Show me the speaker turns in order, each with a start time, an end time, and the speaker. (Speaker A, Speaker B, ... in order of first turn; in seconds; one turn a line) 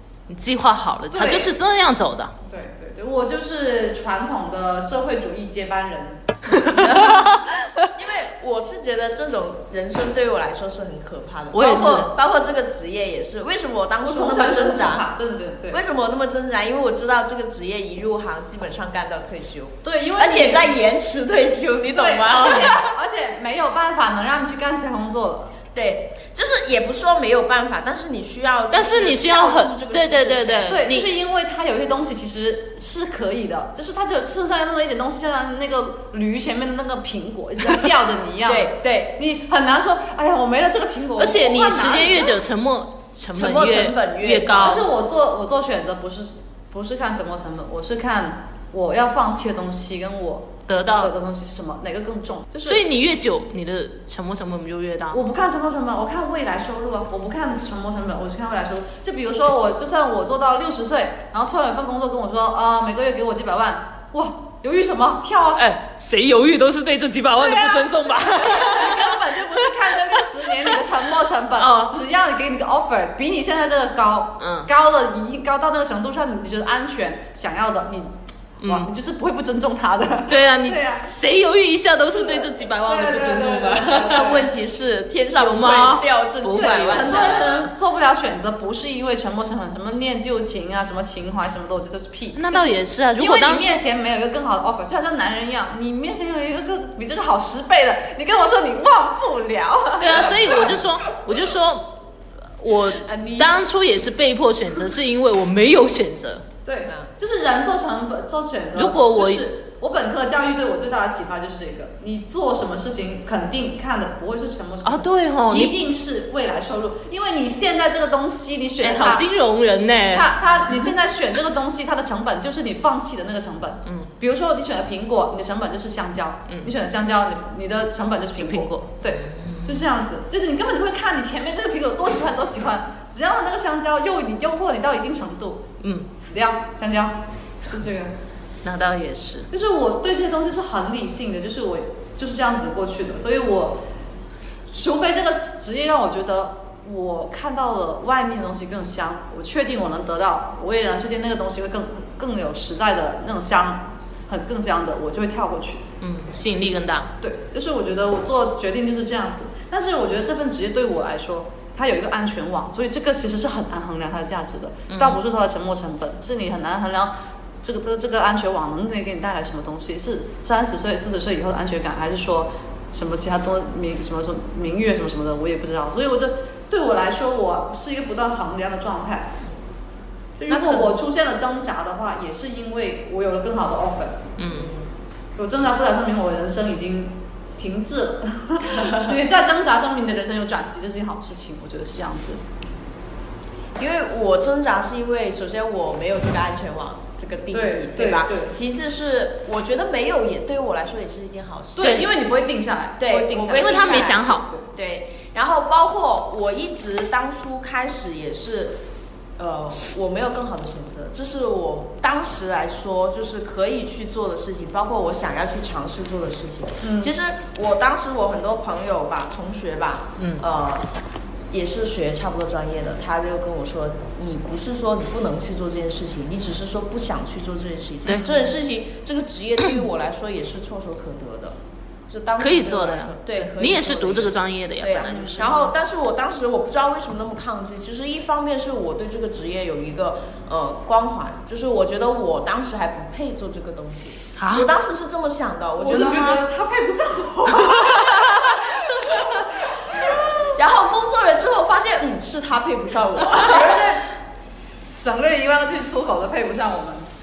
Speaker A: 0.3-2.3
Speaker B: 1.1-1.5
Speaker B: 2.5-6.9
Speaker A: 6.5-7.8
Speaker C: 6.8-7.3
Speaker C: 7.9-15.1
Speaker A: 11.5-12.1
Speaker B: 14.0-15.8
Speaker C: 15.7-22.9
Speaker B: 19.8-20.8
Speaker B: 21.9-25.6
Speaker A: 22.4-22.7
Speaker C: 25.7-30.8
Speaker A: 28.7-31.1
Speaker B: 30.7-42.4
Speaker C: 38.5-39.2
Speaker A: 41.2-44.9
Speaker C: 43.3-44.8
Speaker B: 44.6-52.8
Speaker A: 50.7-51.1
Speaker A: 52.6-55.2
Speaker B: 55.1-65.6
Speaker A: 65.5-70.8
Speaker B: 67.4-81.0
Speaker A: 71.6-72.0
Speaker A: 74.4-74.7
Speaker A: 78.6-78.9
Speaker A: 80.3-84.3
Speaker B: 82.1-84.5
Speaker C: 84.0-87.7
Speaker A: 85.3-87.7
Speaker B: 86.5-100.8
Speaker A: 92.3-93.8
Speaker A: 100.0-102.0
Speaker A: 102.6-106.5
Speaker C: 103.0-103.6
Speaker B: 106.6-119.3
Speaker A: 108.7-109.5
Speaker A: 114.8-115.8
Speaker A: 118.8-120.3
Speaker B: 120.1-138.1
Speaker A: 123.9-124.1
Speaker A: 126.5-126.7
Speaker A: 128.4-129.9
Speaker A: 135.8-136.1
Speaker A: 138.6-139.5
Speaker B: 139.5-143.8
Speaker B: 144.7-155.8
Speaker A: 156.0-157.1
Speaker B: 157.2-179.4
Speaker A: 164.9-165.2
Speaker B: 180.4-184.3
Speaker C: 180.6-180.8
Speaker A: 184.4-184.7
Speaker C: 184.5-184.9
Speaker B: 185.4-192.4
Speaker C: 188.7-189.1
Speaker C: 193.8-202.0
Speaker B: 197.5-198.6
Speaker B: 201.8-204.7
Speaker A: 201.8-202.1
Speaker C: 203.0-208.8
Speaker A: 203.6-204.5
Speaker C: 209.4-220.9
Speaker B: 216.8-217.2
Speaker A: 220.2-220.4
Speaker C: 221.5-246.4
Speaker A: 232.4-235.7
Speaker B: 235.1-235.7
Speaker A: 244.4-244.7
Speaker B: 245.8-250.5
Speaker A: 245.9-246.4
Speaker C: 250.5-253.9
Speaker B: 253.4-254.1
Speaker B: 254.9-257.1